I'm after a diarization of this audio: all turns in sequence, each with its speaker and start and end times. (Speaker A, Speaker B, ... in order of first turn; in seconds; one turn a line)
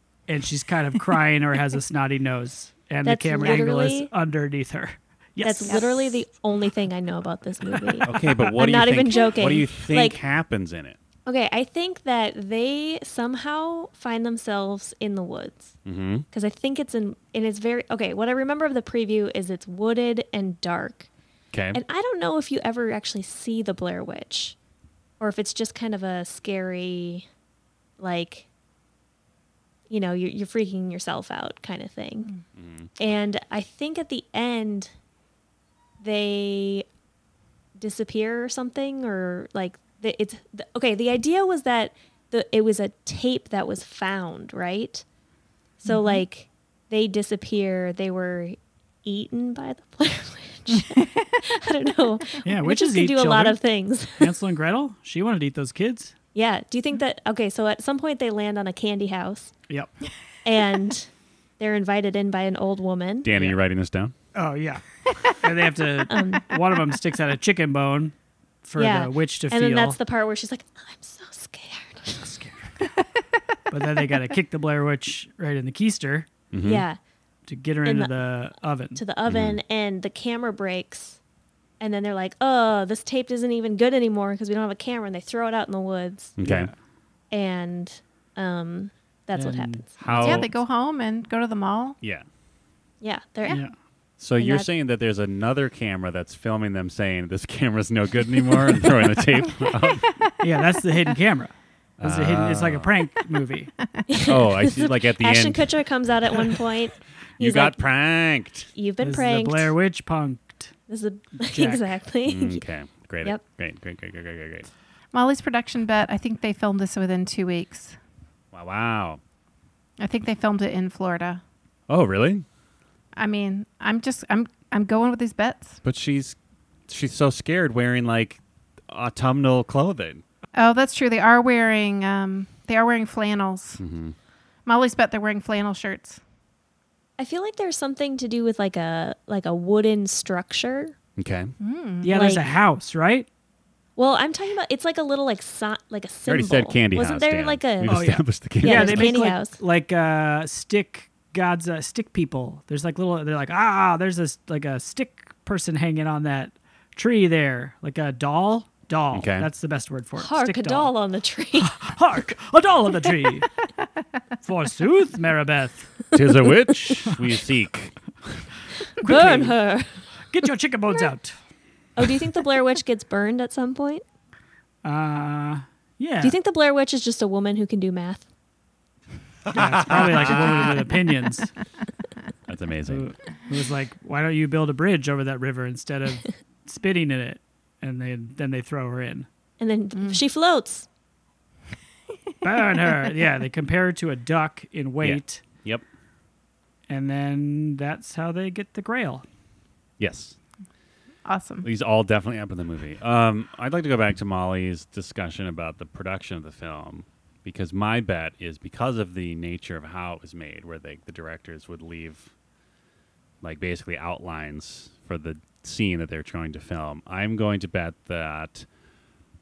Speaker A: 0.3-6.2
Speaker B: 3.0-4.1
Speaker B: 5.4-10.2
Speaker A: 7.7-8.2
Speaker C: 8.0-11.0
Speaker B: 11.2-15.8
Speaker C: 15.8-16.2
Speaker B: 16.3-21.1
Speaker C: 21.5-21.8
Speaker B: 21.7-24.6
Speaker B: 25.2-27.3
Speaker B: 28.0-28.4
Speaker B: 29.9-32.3
Speaker C: 32.5-32.9
Speaker B: 33.0-34.9
Speaker B: 36.0-36.9
Speaker B: 37.8-45.0
Speaker B: 45.8-54.3
Speaker D: 45.8-46.2
Speaker A: 52.4-53.6
Speaker A: 54.2-56.1
Speaker B: 56.3-59.5
Speaker B: 60.4-63.3
Speaker C: 63.2-64.1
Speaker A: 63.3-63.6
Speaker A: 64.3-70.0
Speaker B: 66.1-66.5
Speaker B: 68.8-72.4
Speaker A: 72.2-72.6
Speaker A: 73.7-76.3
Speaker C: 76.5-76.8
Speaker B: 76.6-77.0
Speaker A: 77.5-79.0
Speaker B: 77.8-78.1
Speaker B: 78.9-81.2
Speaker C: 79.3-79.6
Speaker B: 81.8-86.3
Speaker C: 86.4-86.7
Speaker A: 86.4-86.7
Speaker B: 87.3-89.9
Speaker A: 89.3-90.4
Speaker C: 90.0-90.5
Speaker D: 90.2-92.0
Speaker C: 92.0-92.2
Speaker B: 93.0-93.6
Speaker A: 93.5-93.7
Speaker C: 94.2-100.2
Speaker B: 94.4-94.7
Speaker D: 100.0-100.3
Speaker A: 100.4-103.7
Speaker C: 102.0-102.9
Speaker B: 104.1-107.8
Speaker C: 104.2-105.7
Speaker C: 107.4-108.7
Speaker B: 108.7-109.7
Speaker A: 109.0-110.7
Speaker B: 110.9-112.6
Speaker A: 111.5-111.8
Speaker C: 112.2-114.7
Speaker D: 115.1-118.0
Speaker C: 118.5-119.2
Speaker D: 120.0-121.4
Speaker C: 121.9-122.4
Speaker D: 123.1-125.8
Speaker C: 125.8-126.4
Speaker C: 126.9-130.2
Speaker D: 130.5-133.8
Speaker C: 133.8-134.2
Speaker D: 134.7-136.2
Speaker B: 137.2-140.9
Speaker C: 141.2-141.5
Speaker D: 141.6-142.2
Speaker A: 142.0-143.3
Speaker B: 142.1-142.5
Speaker B: 144.0-149.6
Speaker C: 146.3-149.2
Speaker A: 147.8-160.9
Speaker C: 159.1-159.5
Speaker B: 160.2-161.8
Speaker A: 161.6-163.5
Speaker A: 164.4-166.0
Speaker C: 166.1-167.9
Speaker B: 169.0-170.0
Speaker A: 169.0-169.5
Speaker A: 170.3-171.3
Speaker B: 171.9-174.0
Speaker A: 174.8-176.3
Speaker B: 176.2-178.2
Speaker C: 179.5-180.8
Speaker A: 179.5-181.5
Speaker C: 182.5-183.1
Speaker A: 182.9-189.3
Speaker B: 189.6-190.9
Speaker A: 192.4-195.4
Speaker C: 195.0-195.8
Speaker A: 196.9-199.2
Speaker C: 200.0-200.3
Speaker D: 201.2-201.7
Speaker C: 201.6-212.3
Speaker C: 213.4-218.7